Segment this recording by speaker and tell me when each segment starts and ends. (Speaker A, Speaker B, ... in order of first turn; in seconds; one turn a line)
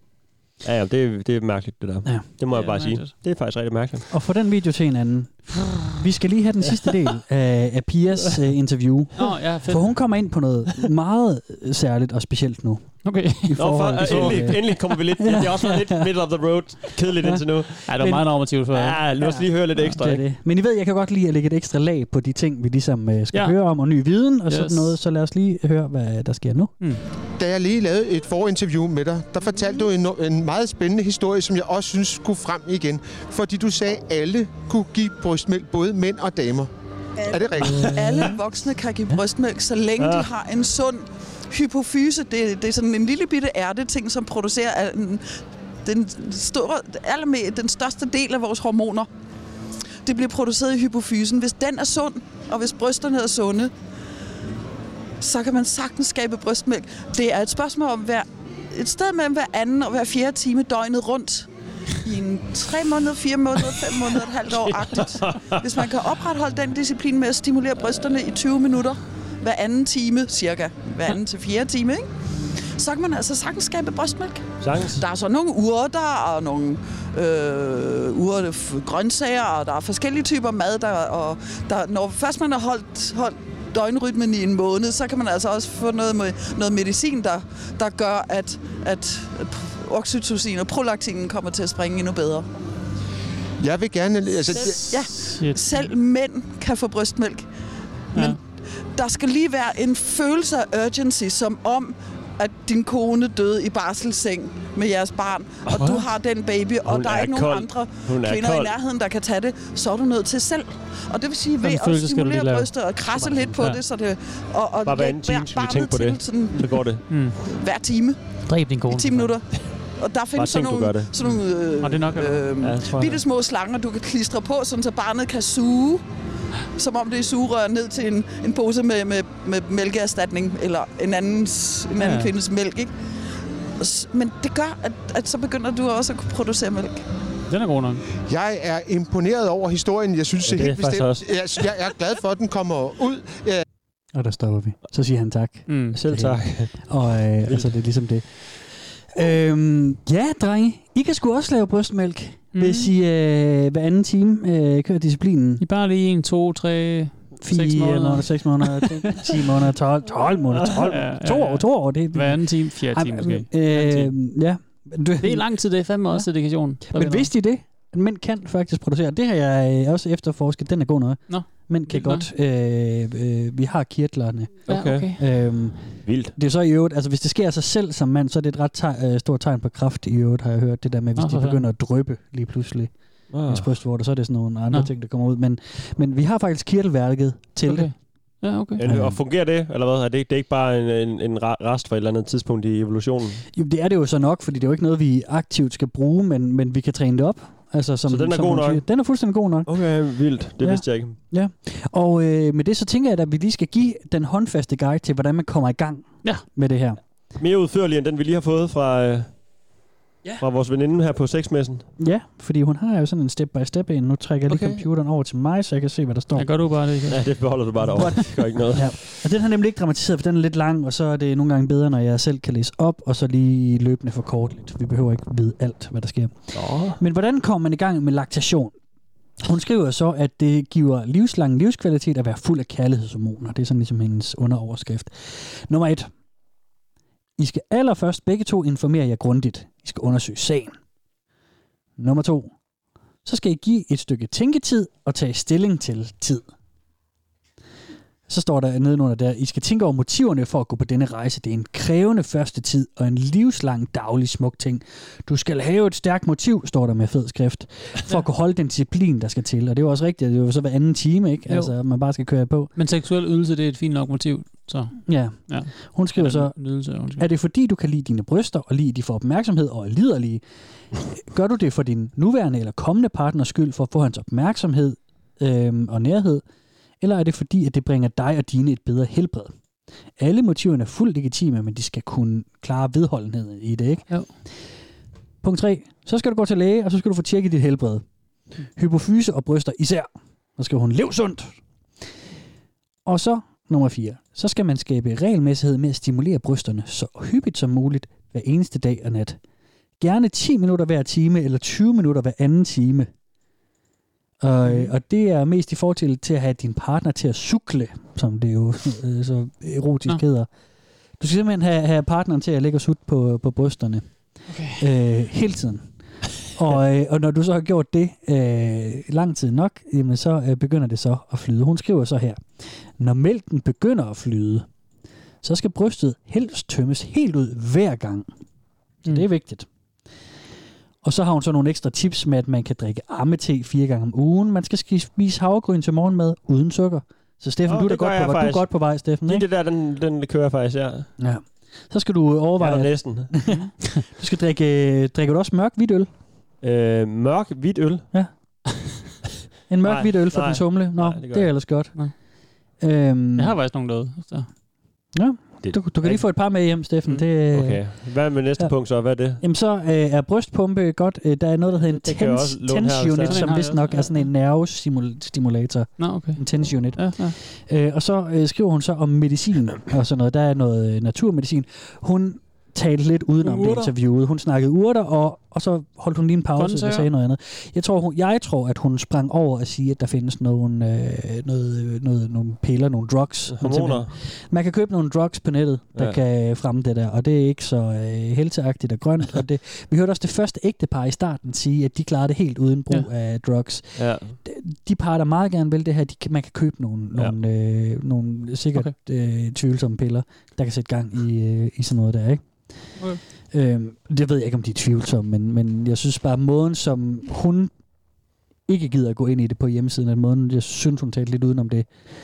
Speaker A: 0.6-4.1
Speaker B: 2.5-3.1
Speaker C: 4.1-16.0
Speaker B: 9.2-9.9
Speaker B: 13.0-14.8
Speaker A: 13.6-18.2
Speaker B: 17.9-19.0
Speaker A: 18.7-20.2
Speaker C: 19.2-26.7
Speaker B: 24.5-24.9
Speaker D: 27.4-36.7
Speaker D: 37.3-37.9
Speaker A: 37.6-38.4
Speaker E: 37.9-45.2
Speaker A: 40.0-40.3
Speaker E: 45.8-49.1
Speaker E: 50.0-53.7
Speaker E: 55.2-61.5
Speaker E: 62.0-72.1
Speaker A: 64.7-65.6
Speaker E: 72.7-92.5
Speaker A: 74.6-75.0
Speaker D: 93.6-94.7
Speaker B: 94.5-95.9
Speaker E: 94.5-97.5
Speaker E: 98.1-116.6
Speaker A: 105.7-106.1
Speaker A: 106.8-108.7
Speaker B: 111.6-112.7
Speaker C: 113.2-113.5
Speaker A: 114.8-117.1
Speaker B: 117.1-117.4
Speaker E: 117.4-118.2
Speaker B: 118.5-119.3
Speaker E: 118.8-119.4
Speaker E: 120.0-126.0
Speaker A: 120.3-121.3
Speaker B: 121.2-122.4
Speaker A: 122.6-123.2
Speaker E: 126.7-132.9
Speaker B: 131.9-132.3
Speaker E: 133.8-137.0
Speaker B: 137.5-138.0
Speaker D: 138.3-143.6
Speaker A: 140.4-141.3
Speaker C: 144.1-155.6
Speaker B: 145.7-145.9
Speaker A: 146.0-146.9
Speaker A: 147.4-147.8
Speaker B: 152.5-152.9
Speaker B: 155.6-159.4
Speaker C: 157.4-165.4
Speaker B: 160.9-164.1
Speaker B: 165.2-167.3
Speaker C: 166.9-182.9
Speaker B: 171.3-172.2
Speaker A: 174.7-175.1
Speaker B: 174.7-175.2
Speaker A: 176.0-176.3
Speaker B: 181.2-181.6
Speaker A: 183.3-183.7
Speaker C: 183.4-187.9
Speaker B: 187.6-188.8
Speaker A: 188.8-193.4
Speaker C: 188.8-189.2
Speaker C: 193.5-199.7
Speaker A: 198.1-198.8
Speaker A: 199.7-201.2
Speaker C: 200.6-207.0
Speaker A: 207.4-209.3
Speaker A: 210.4-211.8
Speaker C: 212.0-216.5
Speaker A: 214.5-214.8
Speaker B: 216.3-217.2
Speaker A: 217.1-219.1
Speaker C: 217.8-228.8
Speaker A: 226.5-227.0
Speaker C: 229.4-236.1
Speaker C: 237.4-240.7
Speaker C: 242.0-242.5
Speaker C: 243.2-246.5
Speaker C: 248.3-262.7
Speaker B: 261.5-261.7
Speaker B: 262.8-267.2
Speaker C: 265.1-266.6
Speaker C: 267.1-270.4
Speaker C: 271.0-276.4
Speaker C: 277.0-279.5
Speaker C: 280.2-284.1
Speaker C: 285.4-288.0
Speaker C: 288.8-291.6
Speaker C: 293.0-299.4
Speaker C: 300.0-303.1
Speaker C: 304.4-310.5
Speaker B: 304.6-304.9
Speaker C: 311.2-314.1
Speaker B: 314.5-314.9
Speaker C: 314.7-315.9
Speaker C: 316.5-324.6
Speaker C: 325.4-328.3
Speaker C: 329.1-329.7
Speaker C: 331.0-339.4
Speaker A: 337.6-341.1
Speaker C: 341.2-346.1
Speaker A: 342.6-343.3
Speaker B: 343.5-343.7
Speaker A: 346.6-348.1
Speaker C: 349.7-352.1
Speaker A: 349.8-351.5
Speaker C: 352.8-353.6
Speaker B: 353.4-354.5
Speaker C: 355.1-357.9
Speaker A: 355.6-356.2
Speaker A: 357.5-359.4
Speaker C: 359.4-402.5
Speaker A: 361.9-363.6
Speaker B: 363.2-364.3
Speaker B: 366.0-367.4
Speaker B: 373.4-373.9
Speaker B: 376.6-377.1
Speaker A: 383.5-384.1
Speaker A: 393.9-394.4
Speaker B: 403.0-403.2
Speaker C: 403.5-407.7
Speaker C: 408.7-411.9